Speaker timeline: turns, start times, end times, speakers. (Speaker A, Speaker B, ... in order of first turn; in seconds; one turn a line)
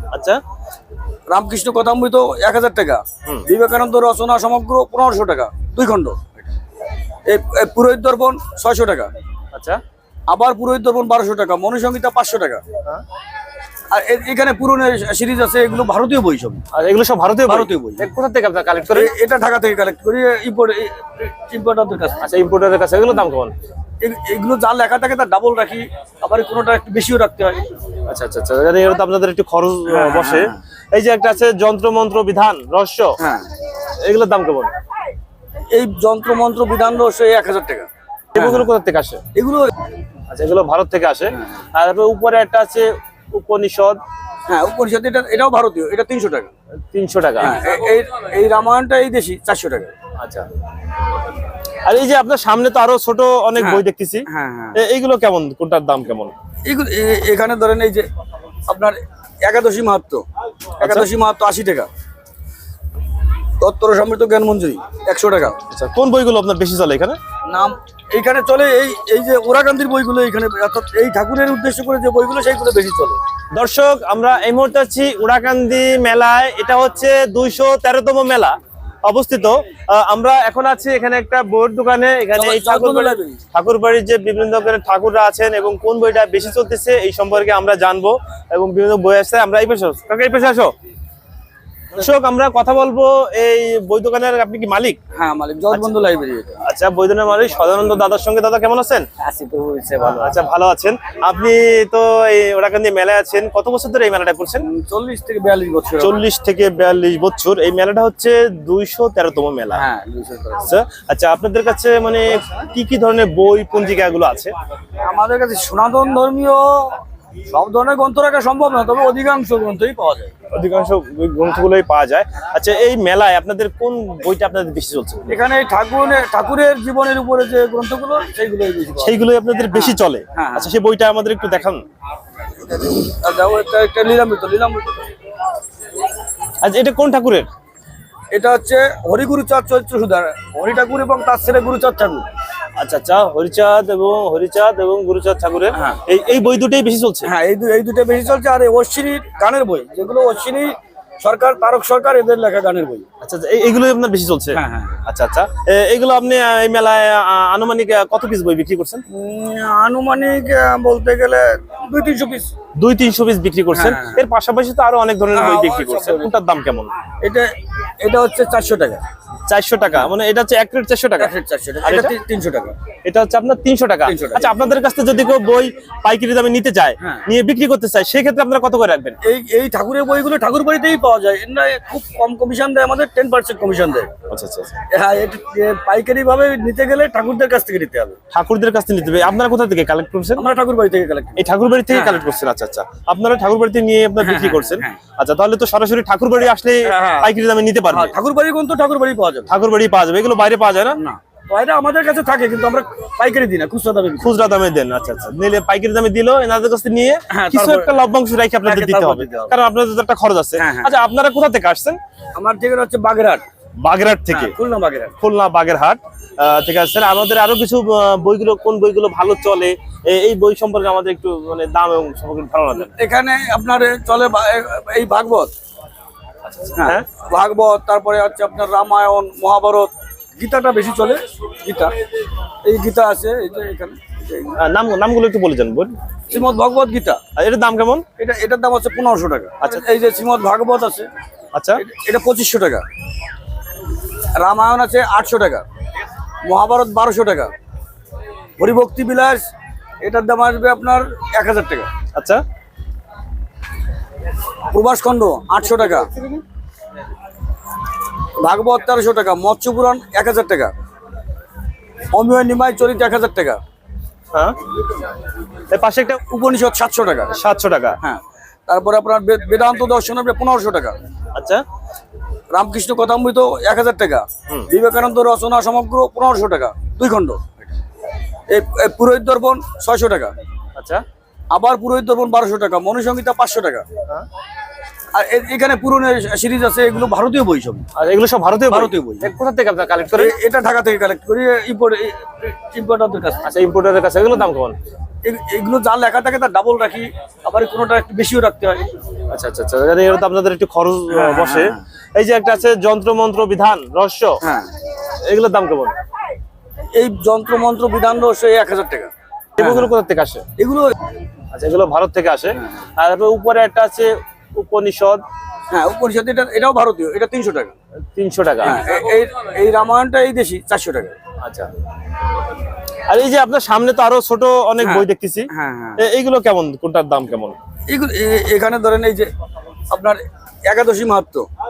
Speaker A: 0.1-0.4
Speaker B: 1.3-6.4
Speaker B: 7.3-9.1
Speaker A: 9.5-9.8
Speaker B: 10.3-12.6
Speaker B: 13.9-16.6
Speaker A: 16.7-19.1
Speaker B: 17.5-18.1
Speaker B: 18.9-22.3
Speaker A: 22.2-23.5
Speaker B: 24.0-27.6
Speaker A: 28.1-33.2
Speaker B: 29.9-30.6
Speaker B: 33.2-33.5
Speaker A: 34.0-34.7
Speaker B: 35.7-38.6
Speaker A: 38.3-39.2
Speaker B: 39.3-39.7
Speaker A: 40.3-44.0
Speaker B: 44.5-46.5
Speaker A: 46.9-47.6
Speaker B: 47.4-49.9
Speaker A: 50.2-50.5
Speaker A: 51.8-56.3
Speaker B: 53.6-54.8
Speaker B: 56.6-58.0
Speaker B: 58.7-60.2
Speaker B: 60.8-61.9
Speaker B: 63.6-65.6
Speaker A: 65.7-67.2
Speaker B: 67.5-73.2
Speaker A: 73.5-78.5
Speaker A: 79.0-90.7
Speaker B: 82.3-83.4
Speaker A: 91.9-95.0
Speaker B: 95.2-96.6
Speaker A: 96.6-99.1
Speaker B: 99.2-100.3
Speaker A: 100.0-104.7
Speaker B: 104.6-106.2
Speaker A: 106.0-109.8
Speaker B: 109.7-110.7
Speaker A: 110.6-114.5
Speaker B: 115.0-120.3
Speaker A: 120.5-125.3
Speaker B: 125.3-129.2
Speaker A: 129.0-131.8
Speaker B: 129.7-130.7
Speaker B: 132.7-135.0
Speaker A: 136.6-137.5
Speaker B: 138.3-142.2
Speaker A: 142.8-147.3
Speaker B: 145.7-146.0
Speaker B: 147.2-153.1
Speaker A: 153.2-159.0
Speaker B: 154.5-155.0
Speaker B: 159.1-162.5
Speaker A: 162.8-166.9
Speaker B: 163.7-164.2
Speaker B: 165.3-166.3
Speaker B: 167.2-167.5
Speaker B: 168.0-169.0
Speaker A: 169.5-172.1
Speaker B: 171.2-172.7
Speaker A: 173.0-179.2
Speaker B: 174.0-174.6
Speaker B: 177.0-177.2
Speaker B: 179.2-184.1
Speaker A: 184.3-184.7
Speaker B: 184.9-188.2
Speaker A: 188.3-190.4
Speaker B: 190.3-192.2
Speaker A: 191.4-198.1
Speaker B: 194.2-195.0
Speaker B: 196.8-197.3
Speaker B: 197.9-199.5
Speaker A: 199.5-201.0
Speaker B: 201.0-204.3
Speaker A: 204.2-212.0
Speaker B: 207.3-208.0
Speaker B: 208.6-209.5
Speaker B: 210.6-210.9
Speaker B: 212.3-213.4
Speaker A: 213.8-214.5
Speaker B: 214.3-215.1
Speaker A: 215.2-222.9
Speaker B: 222.8-225.5
Speaker A: 226.4-227.0
Speaker B: 226.8-231.9
Speaker B: 232.6-234.6
Speaker A: 234.6-235.9
Speaker B: 236.3-237.2
Speaker A: 237.3-238.0
Speaker B: 238.2-241.1
Speaker A: 241.5-241.8
Speaker B: 241.8-242.8
Speaker B: 244.3-245.6
Speaker B: 246.4-247.5
Speaker B: 248.6-249.4
Speaker B: 250.0-251.9
Speaker A: 252.1-252.4
Speaker B: 254.7-256.1
Speaker B: 258.4-260.7
Speaker B: 262.1-263.6
Speaker A: 265.7-266.2
Speaker B: 266.2-267.4
Speaker A: 267.3-268.0
Speaker B: 268.0-270.9
Speaker A: 271.3-271.6
Speaker B: 272.5-277.7
Speaker B: 278.5-280.3
Speaker A: 280.8-281.0
Speaker B: 281.5-283.8
Speaker B: 285.1-287.9
Speaker A: 287.9-290.3
Speaker B: 288.7-289.3
Speaker B: 290.1-293.4
Speaker A: 293.4-294.7
Speaker B: 295.2-298.8
Speaker A: 299.3-304.4
Speaker B: 301.1-301.8
Speaker B: 304.4-304.7
Speaker A: 305.2-305.9
Speaker B: 306.9-309.9
Speaker A: 309.6-310.4
Speaker B: 310.6-311.0
Speaker A: 311.5-315.2
Speaker B: 315.7-317.7
Speaker A: 318.1-318.8
Speaker B: 318.6-321.1
Speaker A: 321.4-321.7
Speaker A: 323.1-327.6
Speaker B: 324.8-326.0
Speaker B: 327.9-329.3
Speaker B: 329.9-331.5